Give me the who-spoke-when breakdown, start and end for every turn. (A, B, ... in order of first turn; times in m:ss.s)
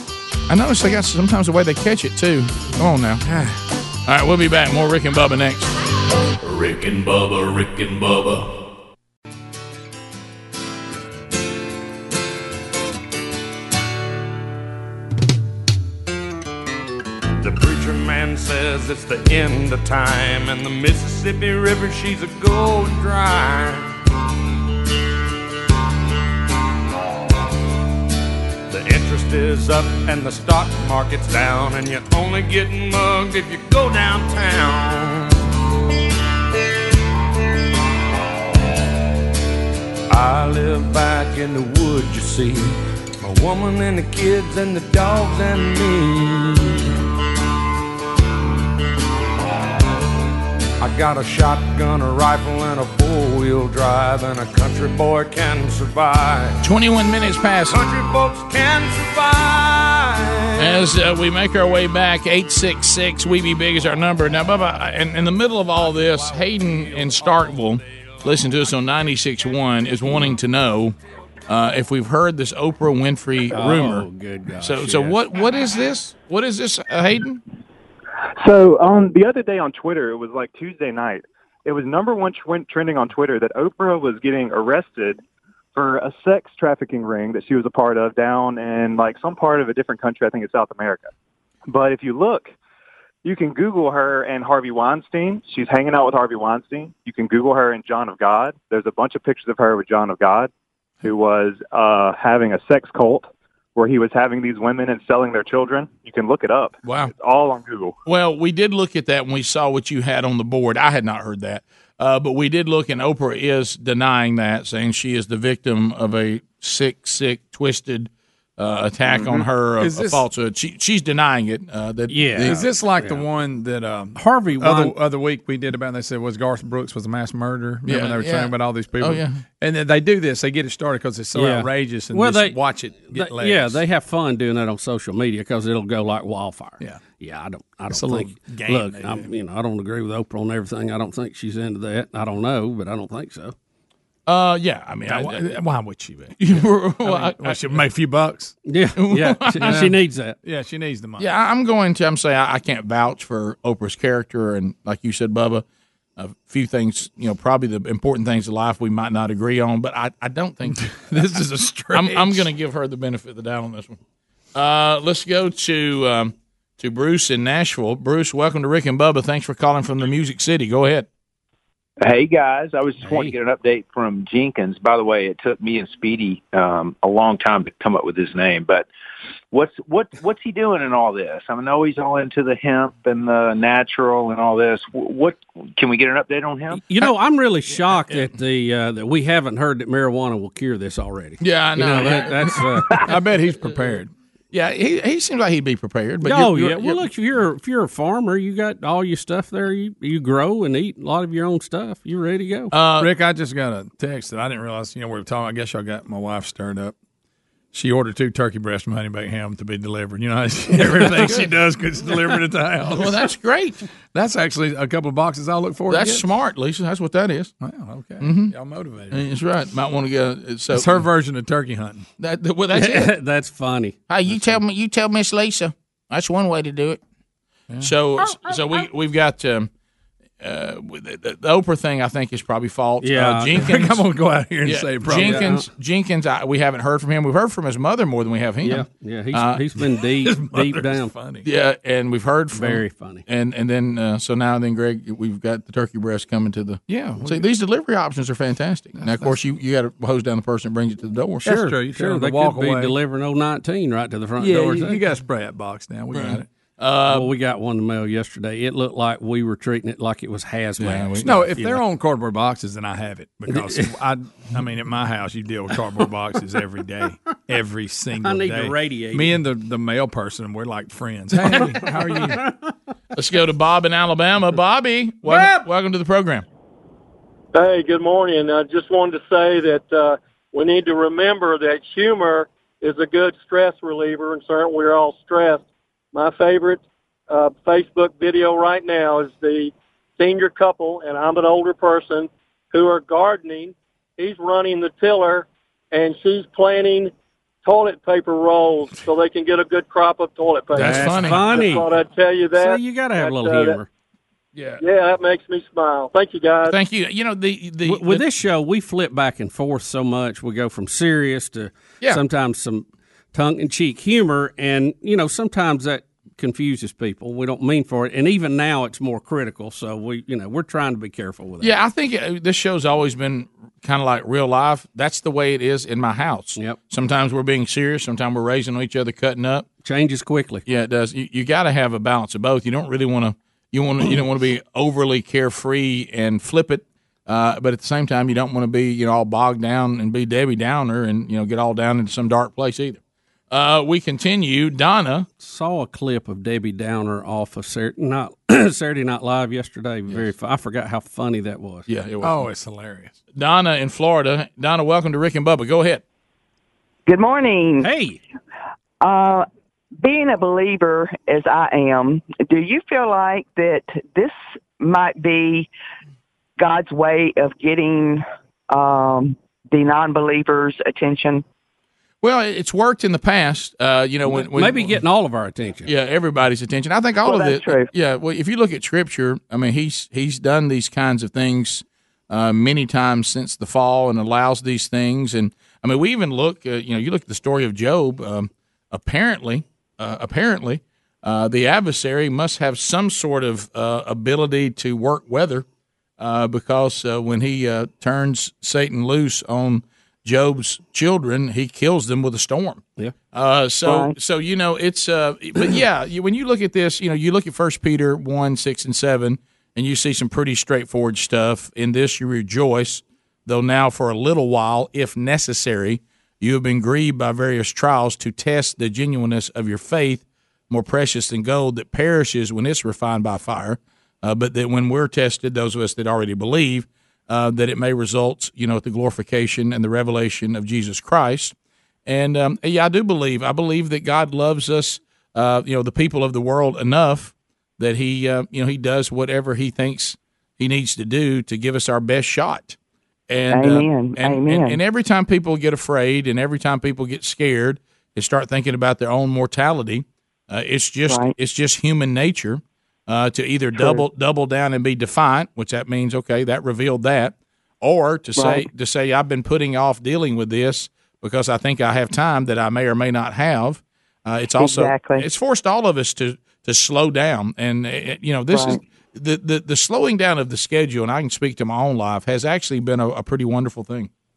0:00.5-0:03.2 A
0:04.0-0:05.7 A
0:06.2-0:08.6 B
0:17.4-0:23.9 C
0:28.7-0:35.4 C
0:40.1-0:46.8 C
0:50.8-0:56.6 C
0:56.6-0:57.8 A
0:57.7-1:00.7 C
1:00.6-1:11.0 A
1:11.5-1:14.0 A
1:13.5-1:15.2 D
1:14.6-1:17.4 A
1:18.4-1:25.2 E
1:25.7-1:31.1 E
1:31.6-1:32.5 E
1:33.2-1:40.5 E
1:41.0-1:47.9 E
1:46.8-1:47.1 A
1:48.0-2:02.6 A
1:59.1-2:00.2 F
2:02.1-2:03.2 D
2:02.3-2:13.8 F
2:04.1-2:04.9 D
2:07.8-2:09.4 A
2:11.4-2:23.5 D
2:17.9-2:19.2 F
2:24.3-2:25.6 A
2:25.0-2:28.5 F
2:26.4-2:27.8 A
2:28.6-2:30.4 D
2:29.0-2:29.9 A
2:29.6-2:31.3 F
2:31.2-2:35.6 A
2:36.2-2:41.2 A
2:40.8-2:42.4 F
2:41.9-2:44.0 A
2:44.5-2:51.1 A
2:52.0-2:58.8 G
2:59.5-3:06.8 G
3:06.7-3:13.0 D
3:11.4-3:12.6 A
3:13.0-3:14.1 F
3:14.5-3:17.1 A
3:16.2-3:22.7 D
3:22.7-3:23.1 A
3:23.0-3:26.9 F
3:27.7-3:33.2 F
3:30.8-3:31.5 A
3:32.9-3:33.8 A
3:34.1-3:36.2 F
3:35.9-3:37.5 A
3:37.6-3:39.2 F
3:38.2-3:38.5 A
3:39.1-3:41.0 A
3:40.7-3:42.0 F
3:42.2-3:43.1 A
3:42.7-3:43.9 D
3:44.1-3:47.0 A
3:47.8-3:49.7 A
3:50.4-3:54.1 A
3:53.0-3:53.8 D
3:53.6-3:55.5 F
3:54.6-3:59.6 A
3:55.0-3:55.7 D
3:58.6-4:01.1 D
4:00.2-4:01.4 F
4:01.4-4:11.7 A
4:02.5-4:03.2 D
4:09.0-4:09.3 F
4:11.4-4:12.9 F
4:11.5-4:15.0 D
4:14.4-4:16.4 F
4:16.1-4:17.3 A
4:17.1-4:21.8 D
4:20.8-4:21.5 A
4:21.1-4:32.4 F
4:23.5-4:23.9 D
4:28.2-4:29.4 D
4:31.4-4:31.7 A
4:33.1-4:36.4 A
4:35.2-4:35.6 F
4:37.5-4:57.1 H
4:57.6-5:03.8 H
5:00.7-5:01.7 A
5:00.8-5:01.4 F
5:00.8-5:01.9 D
5:02.5-5:03.9 D
5:04.8-5:06.7 H
5:06.6-5:08.2 A
5:07.8-5:21.7 D
5:21.6-5:29.7 A
5:29.8-5:30.6 D
5:30.6-5:45.3 A
5:45.4-5:51.9 D
5:51.9-5:52.4 A
5:52.2-5:53.2 F
5:53.3-5:56.0 A
5:57.0-5:57.9 I
5:57.8-5:58.2 D
5:59.0-6:05.7 I
6:06.6-6:11.4 I
6:12.2-6:15.0 A
6:14.3-6:15.9 D
6:15.8-6:35.6 A
6:17.2-6:17.8 I
6:36.2-7:11.5 A
6:43.8-6:44.1 I
7:12.0-7:22.8 A
7:23.3-7:54.1 A
7:23.5-7:24.8 I
7:31.1-7:31.3 I
7:38.4-7:38.7 I
7:44.6-7:45.2 I
7:48.5-7:48.8 I